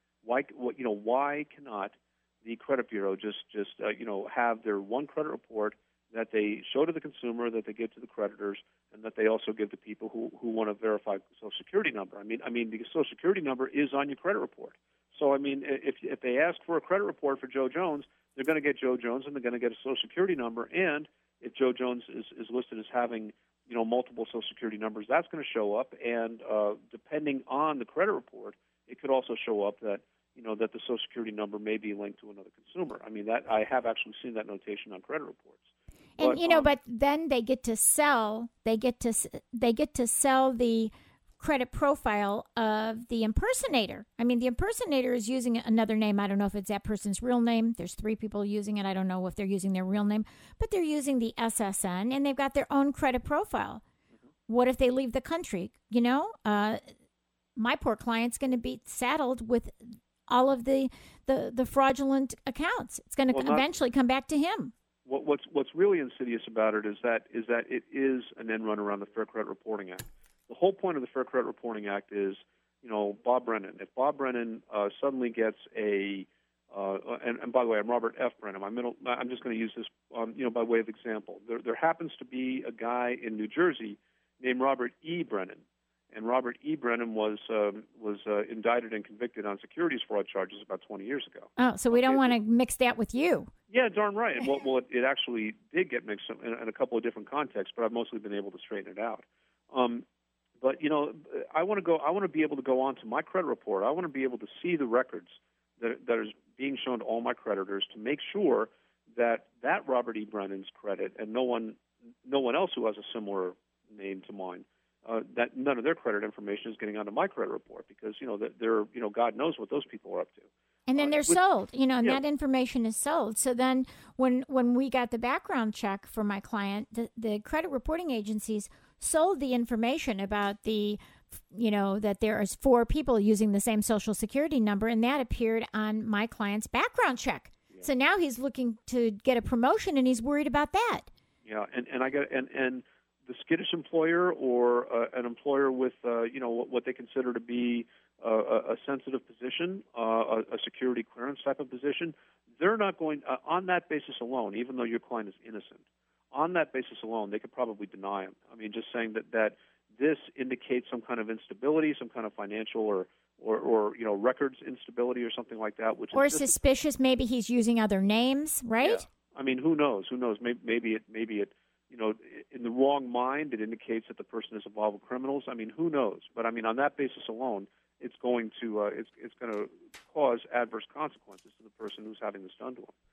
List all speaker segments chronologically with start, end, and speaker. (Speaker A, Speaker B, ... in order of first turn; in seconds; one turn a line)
Speaker A: 0.2-36.7
Speaker B: 36.2-53.8
Speaker B: 54.5-56.8
Speaker B: 57.5-64.7
Speaker A: 63.3-63.7
Speaker A: 65.0-92.3
Speaker B: 91.6-93.5
Speaker A: 93.7-100.0
Speaker A: 100.6-121.4
Speaker B: 120.9-141.1
Speaker A: 141.4-166.6
Speaker B: 166.1-169.0
Speaker A: 168.8-182.9